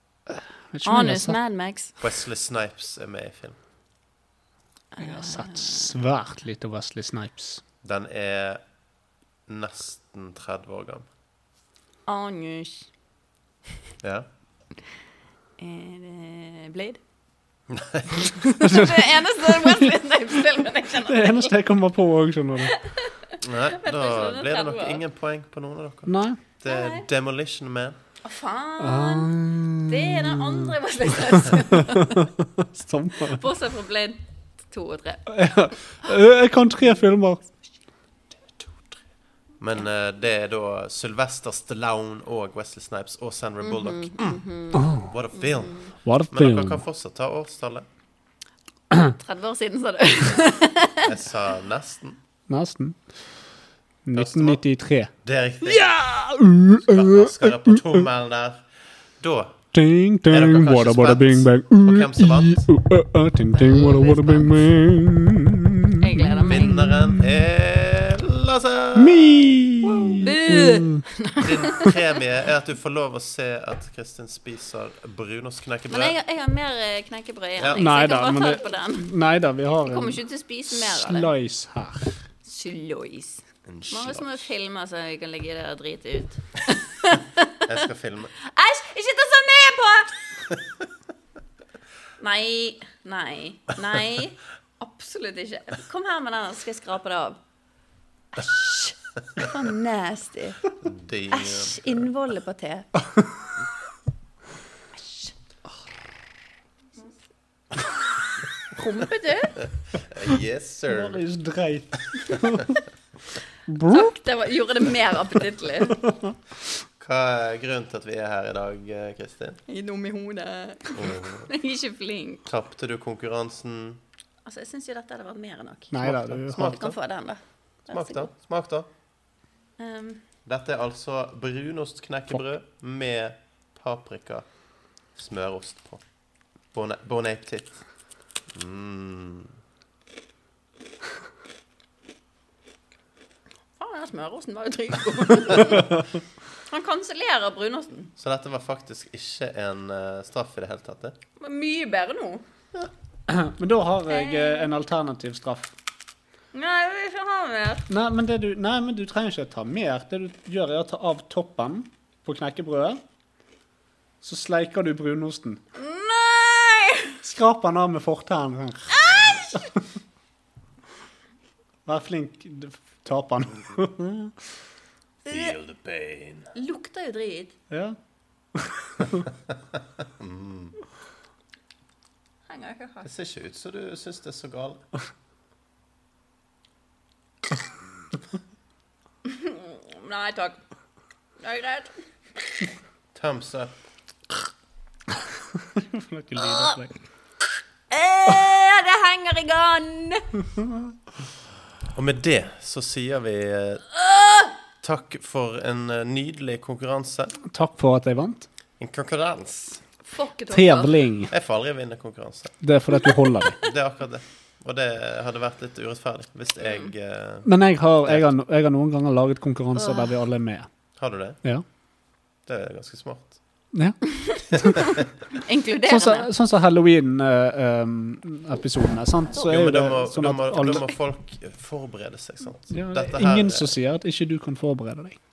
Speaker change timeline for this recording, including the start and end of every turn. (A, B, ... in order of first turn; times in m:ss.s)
0:00.3-0:01.4 A
0:00.8-0:02.0 B
0:02.0-0:03.6 C
0:05.0-0:05.9 B
0:05.0-0:07.6 A
0:07.8-0:08.6 C
0:09.5-0:11.0 C
0:12.0-0:12.9 B
0:14.0-0:14.3 C
0:15.6-0:17.0 B
0:17.7-0:18.4 C
0:18.4-0:19.9 A
0:18.6-0:21.5 B
0:21.0-0:22.7 A
0:22.7-0:23.1 B
0:23.4-0:28.0 C
0:23.6-0:25.0 B
0:26.0-0:26.4 A
0:26.6-0:27.0 B
0:28.2-0:29.3 B
0:28.8-0:30.7 A
0:29.9-0:32.2 B
0:32.7-0:33.4 A
0:33.2-0:35.3 B
0:35.3-0:37.4 A
0:39.6-0:44.5 C
0:43.6-0:45.9 B
0:44.7-0:45.1 A
0:45.0-0:47.8 C
0:46.0-0:46.8 A
0:49.2-0:51.0 B
0:51.0-0:52.2 C
0:52.5-0:53.3 A
0:54.0-0:55.1 A
0:54.1-0:56.1 C
0:55.6-0:58.0 A
0:56.8-0:58.7 C
0:59.2-0:59.7 C
0:59.7-1:07.3 A
1:00.2-1:02.7 C
1:03.5-1:04.7 B
1:06.0-1:06.8 B
1:06.4-1:10.2 C
1:08.9-1:11.0 A
1:10.2-1:11.9 B
1:11.4-1:16.2 C
1:15.9-1:19.1 B
1:17.6-1:17.9 C
1:17.7-1:22.1 A
1:19.8-1:21.3 B
1:22.4-1:27.5 B
1:23.6-1:24.5 C
1:27.6-1:28.3 C
1:28.4-1:30.2 B
1:32.2-1:37.4 B
1:38.3-1:40.6 B
1:40.8-1:42.1 C
1:41.3-1:42.9 B
1:44.9-1:45.3 B
1:48.8-1:49.6 B
1:49.6-1:51.2 C
1:50.9-1:52.8 A
1:53.7-1:54.2 A
1:53.9-1:56.0 B
1:56.0-1:56.3 A
1:57.0-1:59.6 C
1:59.7-2:02.4 B
2:00.9-2:01.5 C
2:02.4-2:04.0 C
2:04.4-2:08.3 B
2:05.9-2:06.8 A
2:06.0-2:07.2 C
2:07.9-2:08.9 C
2:09.8-2:10.2 B
2:10.4-2:14.5 C
2:15.1-2:16.0 C
2:16.7-2:17.8 C
2:18.5-2:19.5 C
2:23.8-2:26.0 B
2:26.7-2:28.1 B
2:28.2-2:31.2 C
2:31.4-2:32.4 B
2:33.3-2:35.7 A
2:34.1-2:34.8 B
2:36.5-2:37.9 B
2:37.9-2:43.0 A
2:44.2-2:45.6 A
2:45.8-2:47.1 B
2:47.2-2:49.0 A
2:48.9-2:49.7 B
2:51.8-2:54.3 A
2:55.2-2:55.5 B
2:55.3-2:56.5 C
2:56.5-2:57.5 B
2:57.7-2:58.0 A
3:00.0-3:00.7 C
3:02.5-3:03.1 B
3:03.0-3:04.8 C
3:09.2-3:10.6 B
3:11.4-3:11.9 B
3:13.1-3:13.8 C
3:15.8-3:16.9 A
3:16.4-3:16.8 B
3:17.9-3:20.3 B
3:21.9-3:23.8 C
3:24.0-3:24.5 B
3:24.8-3:27.3 C
3:27.4-3:28.5 A
3:28.8-3:29.8 C
3:30.0-3:31.0 B
3:30.5-3:31.3 A
3:31.3-3:32.6 C
3:32.6-3:33.6 A
3:33.6-3:38.3 C
3:36.6-3:36.9 B
3:37.4-3:40.7 A
3:39.7-3:40.2 B
3:41.0-3:41.4 C
3:42.4-3:43.4 C
3:43.7-3:44.8 A
3:45.4-3:46.3 B
3:45.8-3:50.9 A
3:49.3-3:53.7 C
3:52.7-3:55.2 A